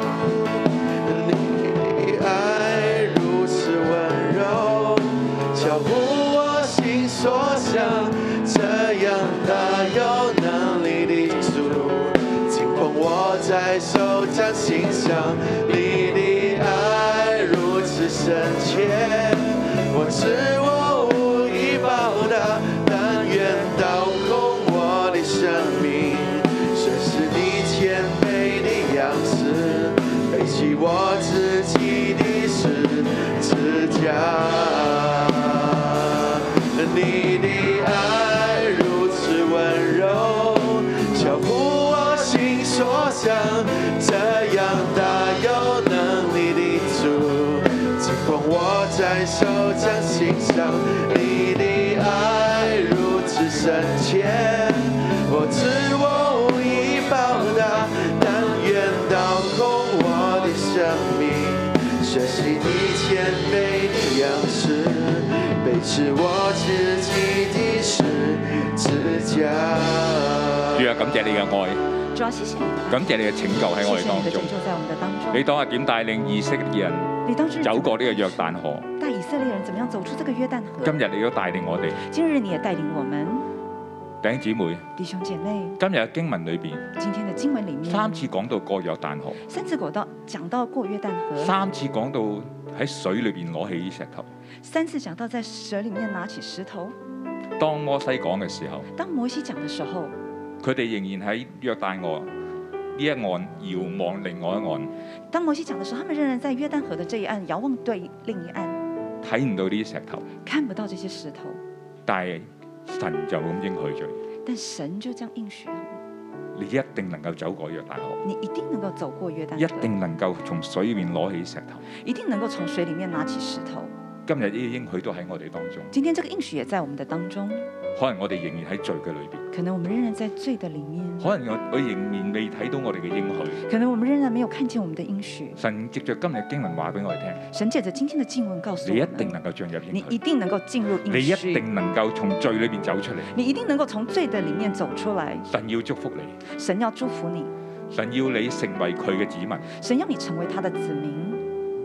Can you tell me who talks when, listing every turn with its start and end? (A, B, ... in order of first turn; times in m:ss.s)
0:01.0-1:10.8 A
1:10.8-1:11.8 B
1:12.1-1:13.1 C
1:12.9-1:14.5 B
1:13.7-1:15.4 C
1:15.3-1:18.9 B
1:17.2-1:21.0 C
1:20.8-1:22.0 B
1:22.0-1:23.5 C
1:24.2-1:24.9 B
1:25.0-1:25.8 C
1:25.8-1:26.9 B
1:27.0-1:28.3 C
1:27.9-1:29.4 B
1:29.5-1:31.6 C
1:31.4-1:34.3 B
1:34.6-1:37.0 C
1:37.6-1:38.9 B
1:38.9-1:40.2 C
1:40.6-1:42.3 B
1:43.0-1:44.9 B
1:45.3-1:48.8 C
1:49.2-1:50.3 B
1:50.4-1:51.6 C
1:52.1-1:54.2 B
1:54.4-1:56.0 C
1:56.6-1:58.2 B
1:58.2-2:00.0 C
1:59.6-2:01.8 B
2:01.9-2:03.9 C
2:04.3-2:05.9 B
2:05.9-2:07.7 C
2:08.0-2:09.4 B
2:09.5-2:11.3 C
2:11.2-2:13.6 B
2:13.6-2:15.6 C
2:15.6-2:17.4 B
2:17.5-2:19.4 C
2:18.8-2:20.2 B
2:19.9-2:21.7 C
2:21.1-2:23.3 B
2:23.3-2:25.5 C
2:25.5-2:26.4 B
2:26.5-2:27.5 C
2:27.9-2:29.7 B
2:29.7-2:31.4 C